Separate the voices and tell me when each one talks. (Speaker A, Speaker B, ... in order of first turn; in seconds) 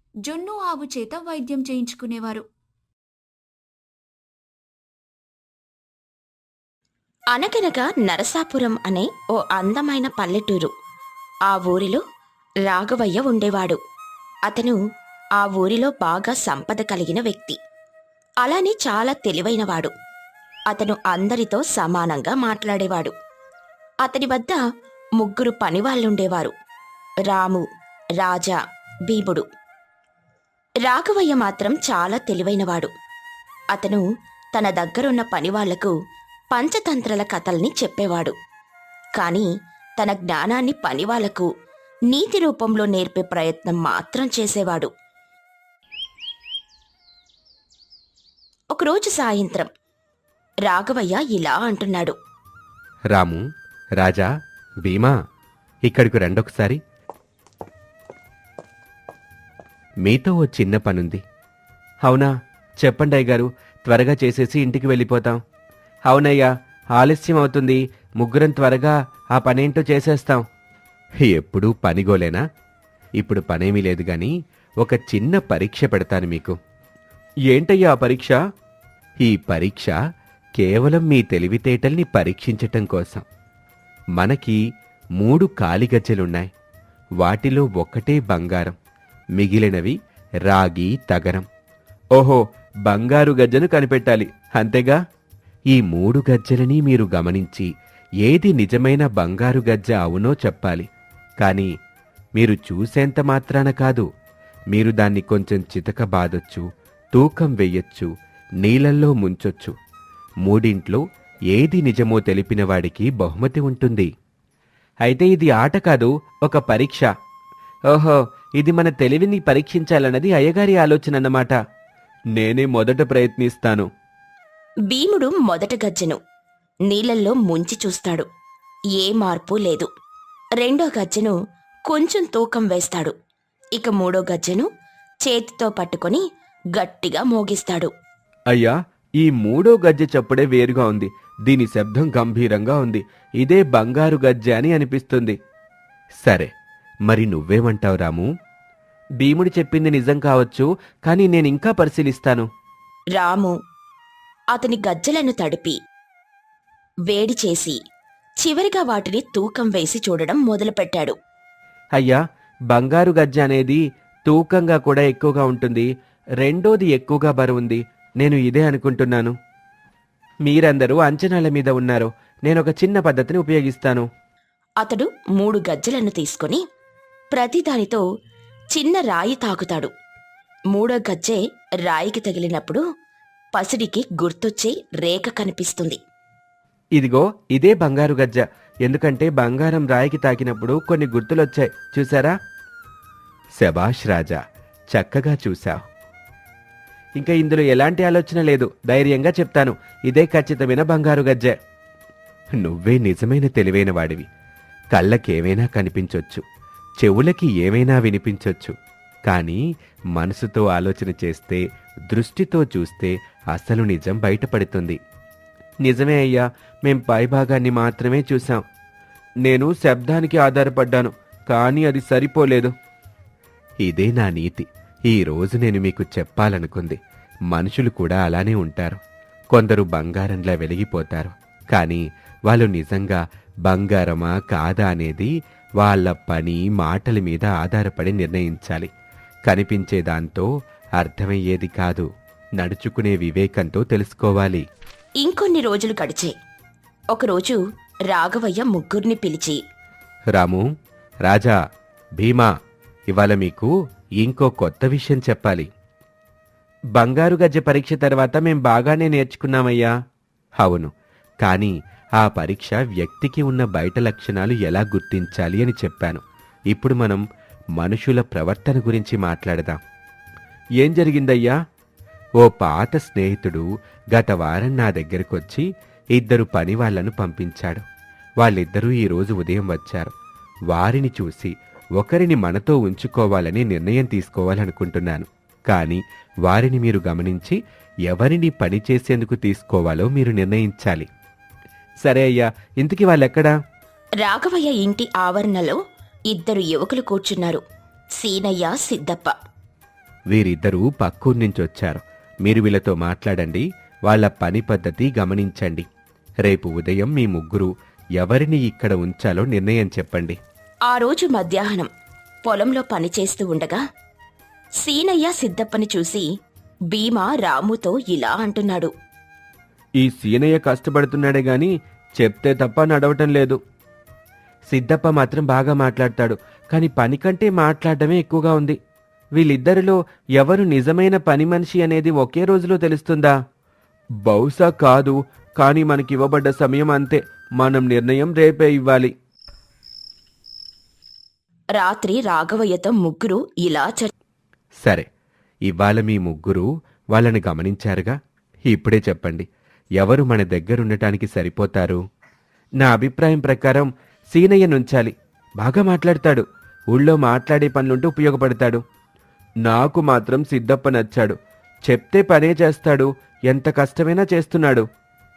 Speaker A: 0.3-2.4
Speaker B: 7.3-10.7, 11.5-12.0, 12.6-13.8, 14.5-14.8, 15.4-17.6, 18.4-19.9, 20.7-23.1, 24.0-24.6, 25.2-26.5, 27.3-27.6, 28.2-28.6, 29.1-29.5, 30.8-32.9, 33.7-34.0, 34.5-35.9, 36.5-38.3, 39.2-39.5, 40.0-41.5, 42.1-44.9, 48.7-49.7, 50.6-52.1, 124.9-126.2, 126.9-128.3, 128.9-129.9, 130.6-131.3, 131.9-133.1, 133.8-134.7, 135.2-136.2, 136.7-137.9, 153.1-153.5, 154.5-155.8, 157.1-157.8, 158.4-161.1, 174.8-176.6, 177.3-178.0, 178.7-179.9, 180.7-182.8, 183.5-186.0, 245.2-246.3, 247.1-249.6, 294.2-295.8, 296.3-297.6, 298.2-299.4, 310.9-311.9, 312.4-313.8, 314.8-316.2, 316.9-318.9, 341.8-344.1
Speaker C: 53.1-53.4, 54.0-54.2, 54.8-55.1, 55.9-56.8, 60.0-61.2, 62.0-62.3, 62.8-65.4, 66.1-70.4, 71.2-72.4, 73.2-76.5, 77.5-78.3, 79.2-79.9, 80.6-83.2, 84.2-84.6, 85.2-86.5, 87.2-88.8, 89.4-89.9, 90.5-91.5, 92.2-95.0, 95.7-97.7, 98.2-100.9, 101.4-101.7, 102.4-104.0, 104.7-108.1, 108.6-109.7, 110.5-111.0, 111.5-114.1, 115.0-117.1, 117.9-121.5, 122.4-123.9, 138.5-145.4, 146.2-146.5, 147.1-148.2, 149.2-152.5, 162.7-165.9, 166.4-169.3, 170.5-174.1, 187.0-192.3, 193.6-194.4, 194.9-195.8, 197.2-201.5, 202.6-204.2, 204.9-206.4, 207.0-208.7, 209.3-209.6, 210.1-215.0, 215.8-218.6, 219.5-222.7, 223.8-227.0, 227.5-229.0, 229.5-238.9, 239.5-240.5, 241.0-242.1, 242.6-244.6, 250.3-250.6, 251.2-251.6, 252.2-252.5, 253.1-253.7, 254.2-255.7, 257.0-259.9, 260.6-260.9, 261.4-266.2, 266.7-267.2, 267.8-269.8, 270.8-271.5, 272.4-275.6, 276.2-277.8, 278.4-280.1, 280.7-291.1, 292.0-293.5, 300.3-305.9, 306.5-310.4, 320.0-323.6, 324.7-328.8, 329.4-333.4, 334.2-339.1, 345.7-348.1, 348.7-349.5, 350.0-352.0, 352.8-358.8, 359.7-364.9